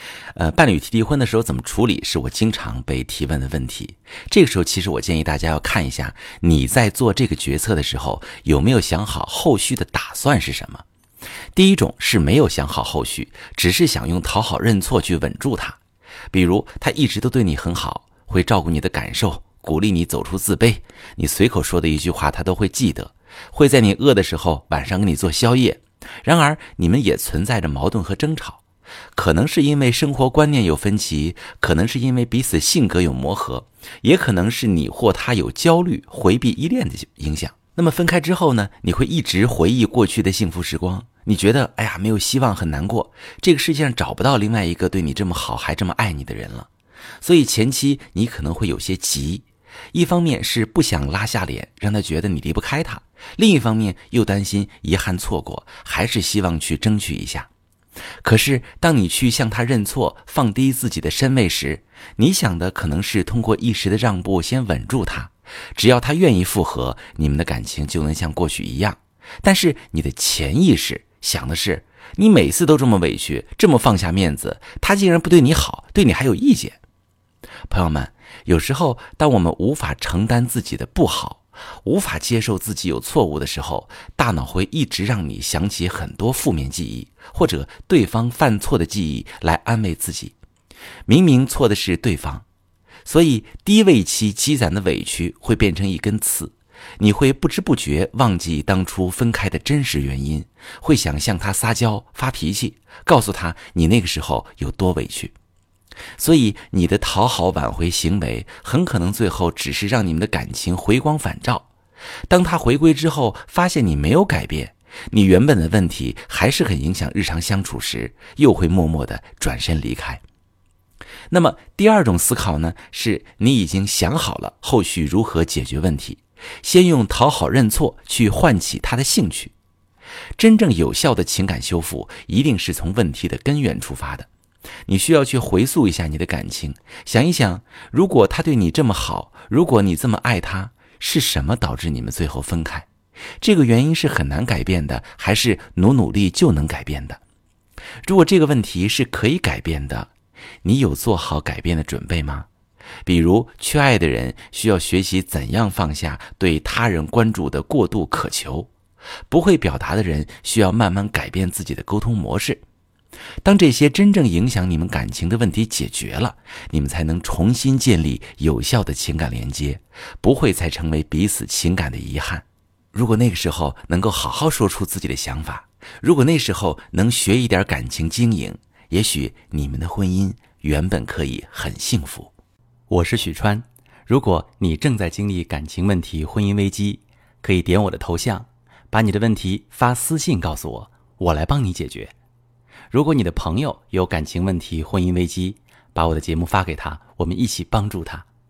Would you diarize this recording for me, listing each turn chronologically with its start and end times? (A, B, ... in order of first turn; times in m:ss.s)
0:00.4-0:10.8 A
0:11.6-0:15.8 A
0:16.3-0:28.6 A
0:29.2-0:46.7 A
0:47.2-0:57.5 A
0:58.2-1:16.8 A
1:17.7-1:30.4 A
1:31.1-1:32.4 A
1:33.0-1:45.3 A
1:46.2-1:51.7 A
1:52.3-2:00.2 A
2:01.3-2:09.5 A
2:10.4-2:14.3 A
2:14.9-2:22.9 A
2:23.4-2:27.2 A
2:28.0-2:30.1 A
2:30.6-2:32.5 A
2:33.1-2:38.7 A
2:39.3-2:42.6 A
2:43.4-3:02.3 A
3:02.9-3:12.1 A
3:12.9-3:18.3 A